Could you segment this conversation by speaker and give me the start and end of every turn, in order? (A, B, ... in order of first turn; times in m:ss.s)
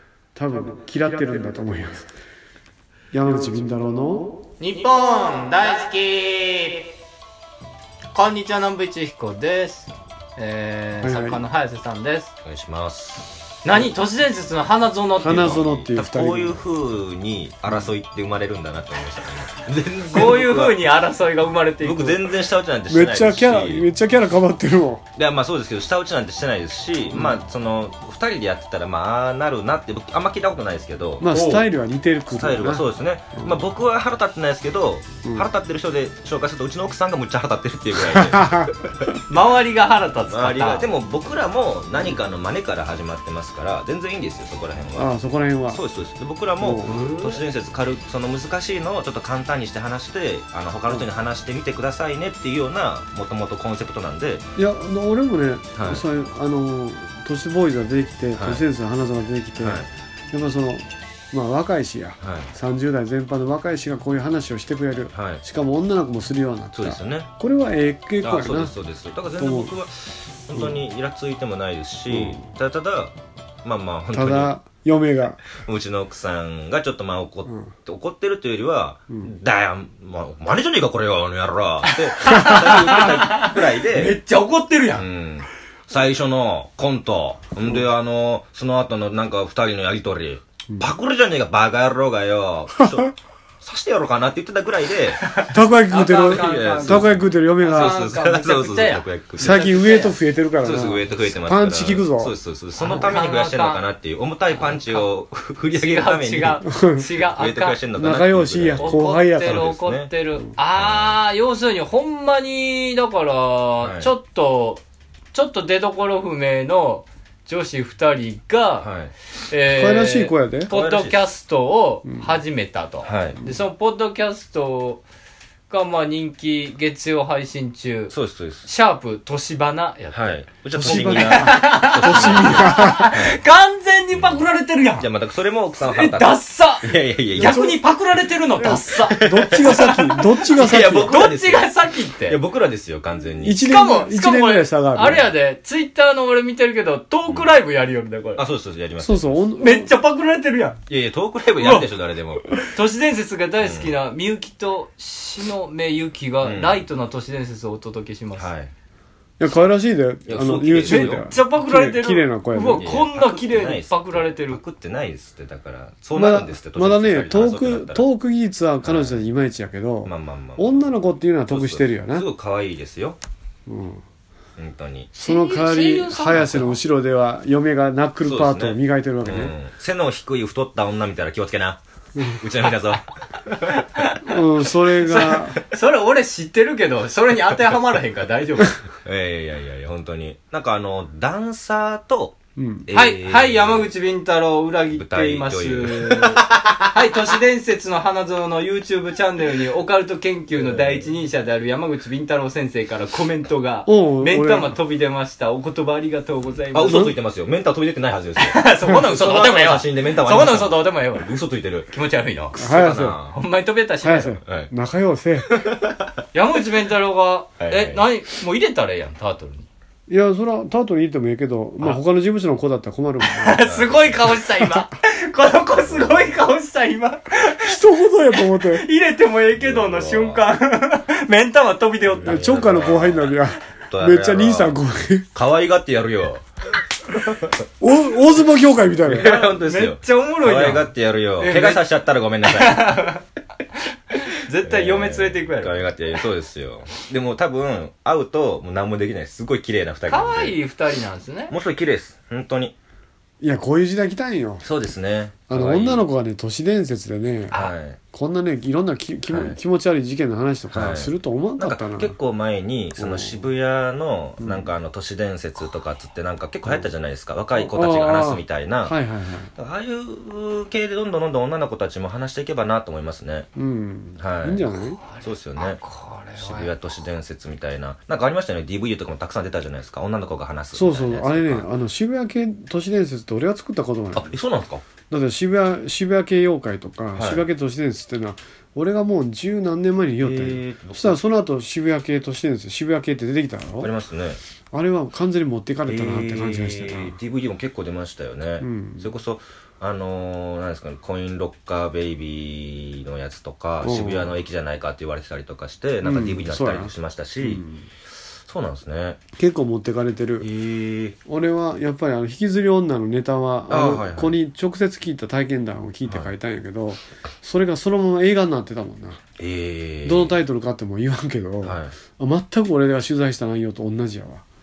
0:00.3-0:02.1 A
0:03.1-0:04.4 A
0:04.6-0:06.9 B
0:08.1-0:12.3 B
0:11.0-0:11.4 A
0:12.4-0:13.4 C
0:13.6-0:15.6 B
0:15.2-0:16.6 A
0:15.2-0:20.8 C
0:20.1-0:22.2 B
0:21.8-0:23.9 C
0:22.9-0:25.0 A
0:25.2-0:31.2 C
0:27.1-0:27.4 A
0:31.2-0:33.6 A
0:31.3-0:31.7 B
0:32.3-0:39.0 C
0:35.2-0:35.5 A
0:38.1-0:38.7 A
0:39.3-0:40.9 B
0:40.3-0:45.2 C
0:45.0-0:45.8 A
0:45.7-0:54.4 C
0:46.6-0:47.2 A
0:54.6-1:08.7 A
0:55.7-0:56.0 C
0:58.3-0:58.6 C
0:59.6-0:59.9 C
1:02.2-1:02.5 C
1:05.1-1:05.4 C
1:06.7-1:07.3 C
1:08.2-1:14.5 C
1:09.4-1:09.7 A
1:12.1-1:12.5 A
1:14.1-1:15.4 A
1:15.5-1:24.2 C
1:21.9-1:25.1 B
1:24.9-1:35.2 C
1:35.2-1:40.2 B
1:35.5-1:38.0 A
1:36.3-1:40.0 C
1:39.4-1:42.3 A
1:40.6-1:50.1 C
1:42.8-1:43.8 B
1:44.5-1:45.1 B
1:45.7-1:47.8 B
1:46.7-1:47.0 A
1:48.0-1:49.6 A
1:48.8-1:54.8 B
1:50.7-1:51.2 C
1:53.8-1:54.1 C
1:55.3-1:58.9 B
1:58.8-1:59.1 C
1:59.4-2:05.0 B
1:59.7-2:00.7 A
2:00.7-2:01.3 C
2:03.0-2:03.4 C
2:05.7-2:08.1 B
2:08.1-2:08.7 C
2:08.6-2:15.1 B
2:10.1-2:13.4 C
2:10.8-2:13.1 A
2:14.1-2:17.7 C
2:15.8-2:19.7 B
2:17.4-2:17.8 A
2:18.6-2:21.2 A
2:19.0-2:23.7 C
2:20.9-2:22.4 B
2:23.4-2:25.2 A
2:23.6-2:28.4 B
2:28.4-2:29.4 C
2:29.0-2:29.9 A
2:29.6-2:30.8 B
2:30.9-2:32.4 C
2:31.6-2:31.9 B
2:32.7-2:38.5 B
2:33.6-2:33.9 C
2:36.4-2:36.8 C
2:38.4-2:38.7 C
2:39.4-2:42.9 A
2:40.3-2:41.2 C
2:40.9-2:44.6 B
2:42.8-2:48.0 C
2:46.1-2:52.3 A
2:48.8-2:49.2 C
2:50.0-2:50.9 C
2:51.5-2:53.2 C
2:53.6-2:54.0 A
2:54.6-2:55.1 C
2:55.1-2:56.8 B
2:55.2-2:59.5 A
2:58.2-3:03.7 C
3:02.2-3:02.4 A
3:03.7-3:04.2 B
3:04.2-3:05.6 A
3:05.0-3:08.8 B
3:09.0-3:13.9 C
3:12.6-3:12.9 A
3:12.9-3:27.1 B
3:14.9-3:16.9 C
3:20.6-3:21.1 C
3:23.8-3:24.8 A
3:26.7-3:31.9 C
3:28.4-3:32.5 B
3:32.5-3:33.4 C
3:32.6-3:33.2 A
3:33.3-3:34.4 B
3:34.0-3:35.5 A
3:34.4-3:34.7 C
3:35.5-3:36.2 C
3:36.3-3:39.7 B
3:37.6-3:38.0 C
3:40.1-3:43.6 A
3:43.2-3:47.8 B
3:43.6-3:44.4 C
3:45.8-3:46.2 C
3:47.6-3:48.8 A
3:48.4-3:52.6 B
3:49.5-3:50.5 C
3:52.2-3:54.8 C
3:52.2-3:55.3 A
3:55.3-3:56.4 C
3:57.1-3:57.5 C
3:57.8-3:59.3 A
3:59.0-4:03.1 C
3:59.1-4:01.9 B
4:02.4-4:03.2 B
4:04.1-4:05.8 B
4:04.6-4:10.6 C
4:10.1-4:11.5 B
4:11.5-4:12.7 C
4:13.4-4:14.6 A
4:14.6-4:16.0 C
4:15.5-4:17.5 A
4:17.5-4:18.0 C
4:18.1-4:22.2 A
4:19.3-4:19.6 C
4:20.7-4:29.0 C
4:23.0-4:23.5 A
4:24.4-4:24.7 A
4:27.6-4:29.5 A
4:29.6-4:33.5 C
4:33.6-4:35.0 A
4:34.2-4:34.6 C
4:35.0-4:36.9 B
4:35.2-4:35.8 C
4:36.4-4:41.7 C
4:40.7-4:44.3 A
4:44.1-4:44.8 C
4:45.1-4:53.9 A
4:47.2-4:47.4 C
4:50.2-4:51.2 C
4:53.8-4:54.4 C
4:54.7-4:57.2 A
4:55.8-5:07.6 C
4:58.6-4:59.1 A
5:03.8-5:04.3 A
5:06.0-5:07.8 A
5:08.4-5:09.2 C
5:09.4-5:10.5 A
5:10.4-5:11.2 C
5:11.2-5:19.2 A
5:13.7-5:14.4 C
5:16.0-5:16.3 C
5:19.4-5:20.3 C
5:20.0-5:24.4 A
5:21.6-5:21.9 C